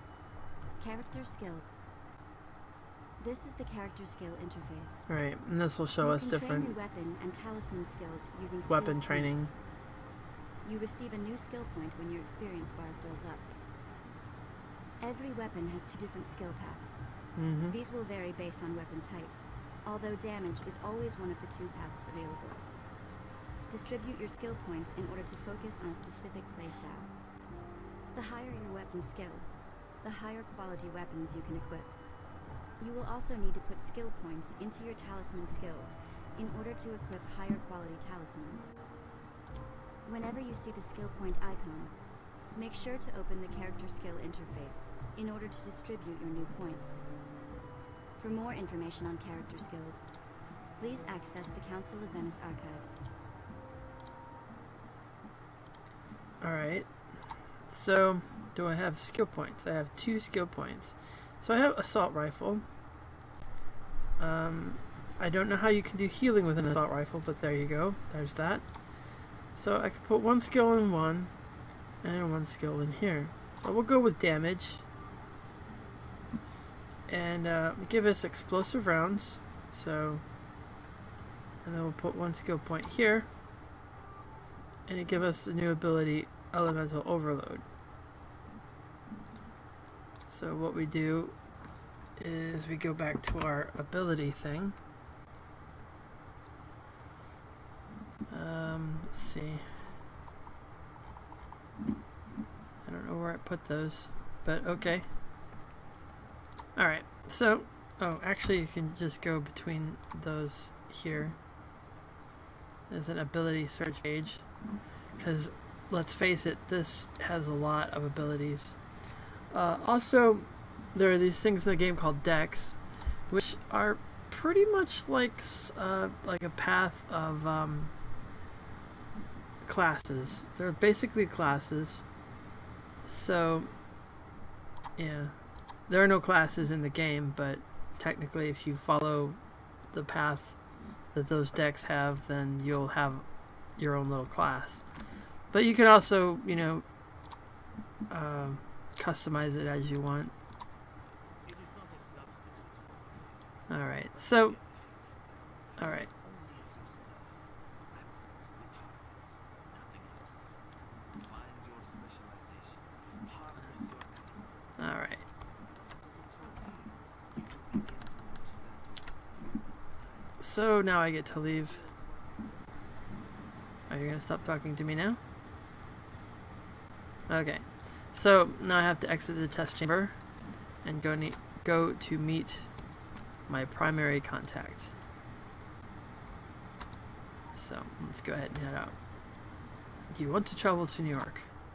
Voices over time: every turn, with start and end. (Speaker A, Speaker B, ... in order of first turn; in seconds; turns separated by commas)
Speaker A: 0.8-1.8, Speaker A: 3.2-5.1, Speaker B: 5.1-6.7, Speaker A: 6.0-9.5, Speaker B: 8.7-9.5, Speaker A: 10.6-13.5, Speaker A: 15.0-17.0, Speaker B: 17.4-17.7, Speaker A: 17.7-22.7, Speaker A: 23.7-27.1, Speaker A: 28.1-29.5, Speaker A: 30.0-31.9, Speaker A: 32.8-38.7, Speaker A: 40.0-41.9, Speaker A: 42.5-47.0, Speaker A: 48.2-50.0, Speaker A: 50.8-53.0, Speaker B: 56.4-62.6, Speaker B: 64.2-71.3, Speaker B: 72.0-74.8, Speaker B: 77.1-80.2, Speaker B: 81.6-83.3, Speaker B: 84.9-87.6, Speaker B: 90.3-91.3, Speaker B: 92.2-94.7, Speaker B: 98.3-99.7, Speaker B: 102.8-105.1, Speaker B: 106.8-111.4, Speaker B: 112.9-114.4, Speaker B: 115.2-118.8, Speaker B: 119.5-127.9, Speaker B: 129.6-132.1, Speaker B: 133.0-133.7, Speaker B: 135.0-139.4, Speaker B: 139.9-140.6, Speaker B: 141.1-143.2, Speaker B: 143.8-144.8, Speaker B: 145.5-146.8, Speaker B: 148.1-150.3, Speaker C: 151.4-160.6, Speaker B: 153.7-154.6, Speaker B: 155.8-156.1, Speaker C: 161.1-164.6, Speaker B: 164.8-165.2, Speaker C: 165.6-170.4, Speaker B: 170.4-171.8, Speaker C: 171.2-173.8, Speaker B: 173.9-175.2, Speaker B: 177.3-180.2, Speaker B: 180.8-182.7, Speaker B: 183.5-184.9, Speaker B: 187.5-188.9, Speaker B: 190.1-191.5